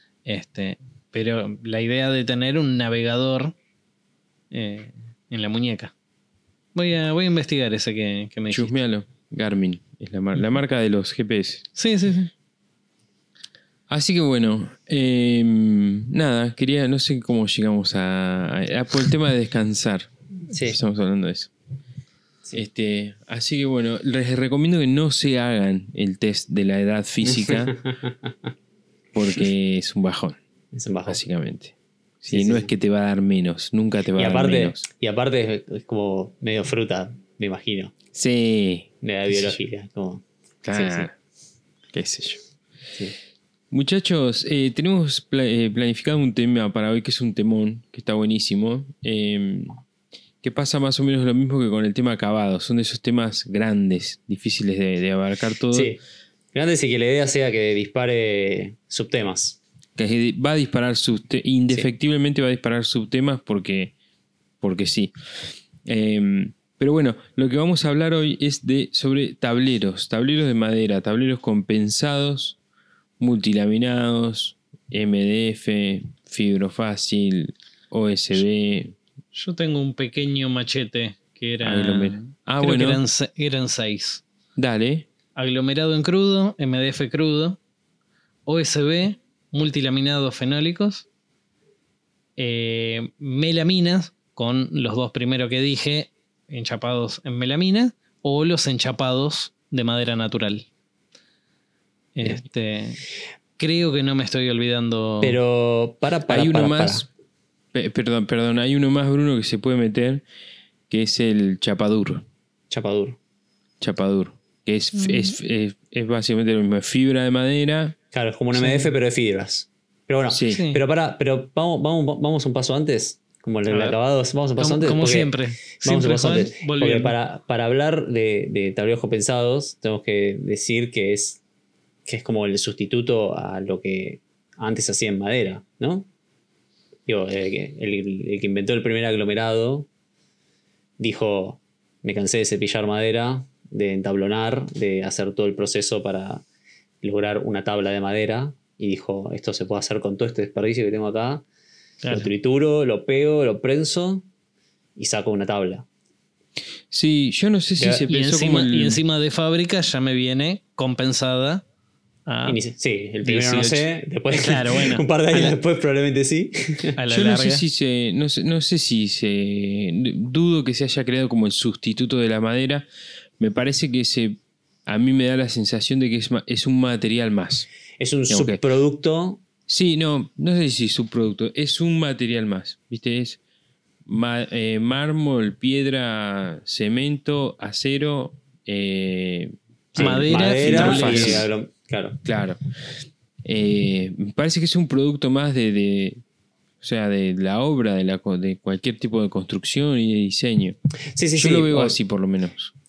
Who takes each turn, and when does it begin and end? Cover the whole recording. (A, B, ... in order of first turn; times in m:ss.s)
0:00.2-0:03.5 A
0:04.5-0:05.9 A
0:06.7-0:08.8 A
0:08.5-0:11.6 B
0:11.8-0:12.3 A
0:13.9-0:21.5 B
0:20.5-0:20.8 C
0:22.5-0:27.7 B
0:27.3-0:28.3 C
0:29.1-0:30.4 B
0:30.7-0:31.2 C
0:31.1-0:34.8 B
0:32.3-0:32.7 C
0:34.2-0:37.9 C
0:38.1-0:39.6 B
0:39.0-0:41.1 C
0:40.6-0:41.1 B
0:41.9-0:42.4 B
0:43.7-0:49.8 B
0:50.4-0:56.0 B
0:55.7-0:56.0 C
0:56.5-0:59.6 C
1:00.0-1:03.9 B
1:04.6-1:05.1 B
1:05.8-1:12.6 B
1:13.2-1:19.0 B
1:19.3-1:24.2 A
1:21.6-1:23.0 B
1:24.6-1:25.0 B
1:25.3-1:27.6 A
1:28.4-1:31.0 A
1:32.4-1:40.7 A
1:42.1-1:43.0 A
1:43.6-1:45.4 A
1:45.2-1:47.0 C
1:46.3-1:47.0 B
1:47.7-1:50.2 B
1:50.9-1:52.2 B
1:52.7-1:53.2 C
1:53.8-1:58.0 B
1:55.0-1:55.3 A
1:58.1-2:11.4 C
1:58.6-1:58.9 A
2:00.3-2:00.6 B
2:00.5-2:00.8 A
2:03.7-2:04.0 A
2:04.6-2:07.1 A
2:12.0-2:16.1 C
2:17.1-2:19.9 C
2:21.0-2:26.4 C
2:27.0-2:31.4 C
2:32.0-2:32.3 A
2:32.1-2:34.2 C
2:35.0-2:35.8 C
2:36.9-2:39.0 B
2:37.8-2:38.1 C
2:38.1-2:41.6 A
2:42.3-2:42.6 A
2:42.4-2:47.0 C
2:43.2-2:45.6 A
2:47.0-2:47.6 A
2:47.1-2:52.9 B
2:53.4-2:57.7 B
2:58.0-2:59.4 C
2:58.3-2:58.6 B
2:59.7-3:03.4 B
3:04.0-3:11.5 B
3:09.9-3:11.4 A
3:09.9-3:12.2 C
3:12.2-3:12.6 B
3:13.4-3:16.2 B
3:16.8-3:20.8 B
3:21.1-3:22.0 C
3:21.3-3:22.7 B